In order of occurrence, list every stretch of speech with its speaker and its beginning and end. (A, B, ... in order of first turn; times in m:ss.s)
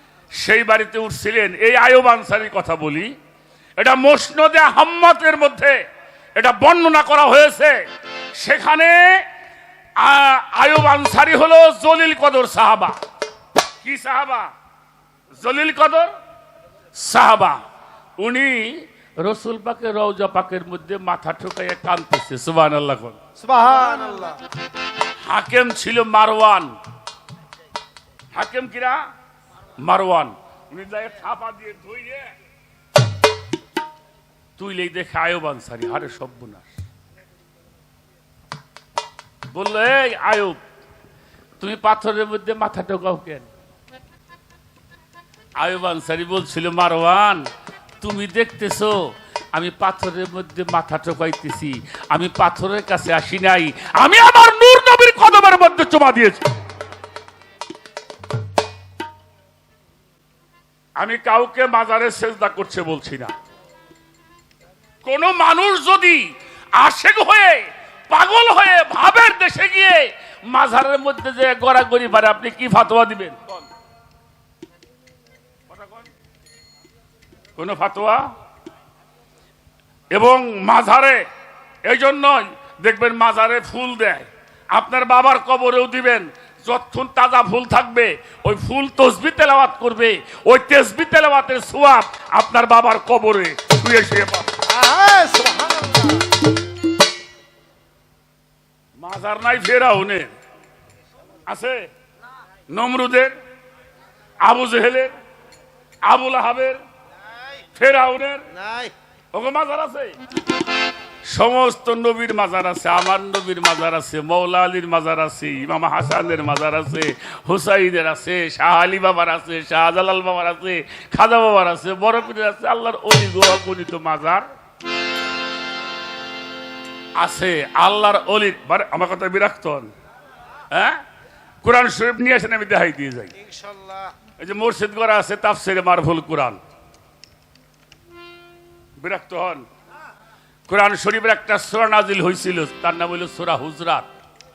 0:00.4-0:03.1 A
0:03.8-0:05.8 A
0:06.4-0:07.8 A
0:08.4-0:09.2 A
0:10.0-0:13.0 A
0:13.8-0:14.5 A
0:15.4-0:16.1 A
0:17.0-0:17.6 A
0:18.2-0:23.2 A
0:23.4-0:24.4 B
0:25.2-0:26.7 A
0:28.3-0:29.0 A
0:29.8-0:32.3 A
0:34.6-0:36.7 A
0:39.5-0:40.6 A
0:41.6-0:43.5 A
0:45.6-0:47.4 A
0:48.0-0:56.5 A
1:01.0-1:03.3 A
1:05.0-1:13.7 A
1:15.7-1:16.1 A
1:17.6-1:18.3 A
1:20.1-1:21.2 A
1:21.8-1:34.5 A
1:34.6-1:36.3 B
1:39.0-1:40.3 A
1:41.5-1:41.9 A
1:42.7-1:43.4 A
1:44.4-1:45.2 A
1:46.1-1:46.8 A
1:47.8-1:48.5 A
1:48.5-1:48.9 B
1:49.3-1:50.2 A
1:51.3-2:04.5 A
2:07.2-2:09.9 A
2:10.7-2:11.0 A
2:11.6-2:13.3 A
2:13.4-2:14.1 B
2:14.4-2:16.6 A
2:19.0-2:19.7 A
2:20.7-2:24.1 A